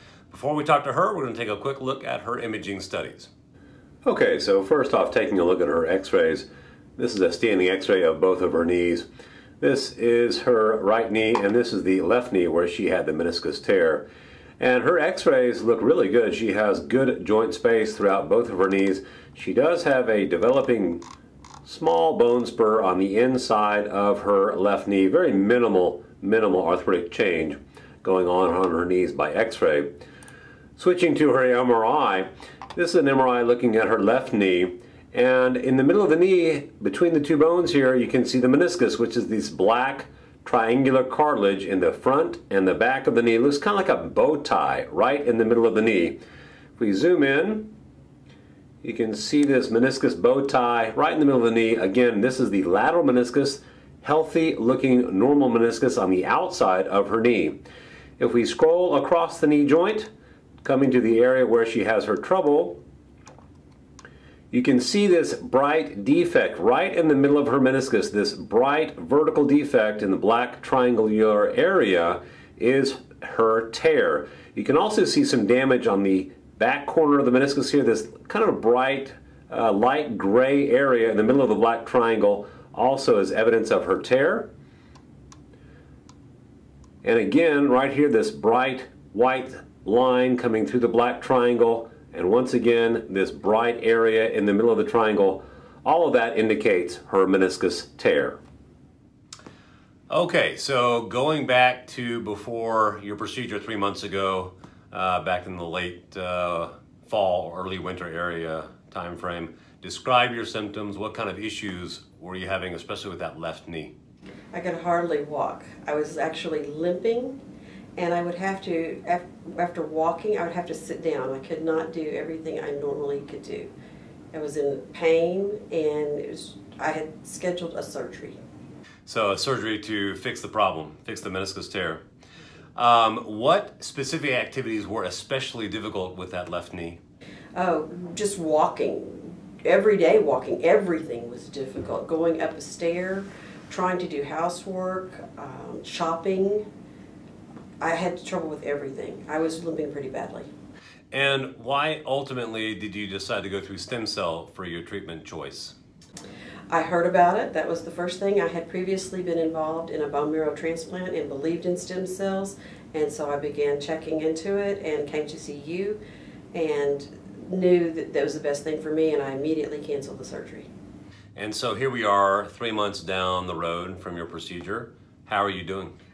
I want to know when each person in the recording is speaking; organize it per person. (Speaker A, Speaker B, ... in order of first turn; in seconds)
Speaker A: 0.3-3.3, 4.0-9.1, 9.6-14.1, 14.6-21.0, 21.6-29.9, 30.8-46.2, 46.8-47.7, 48.8-57.6, 58.2-60.1, 60.6-62.8, 64.5-84.5, 87.0-98.4, 100.1-113.9, 129.1-132.0, 132.8-137.0, 151.1-155.7, 171.3-175.9
Speaker B: 114.5-117.4, 118.0-123.7, 124.3-128.4, 137.5-146.7, 147.8-150.5, 156.7-166.0, 166.5-170.7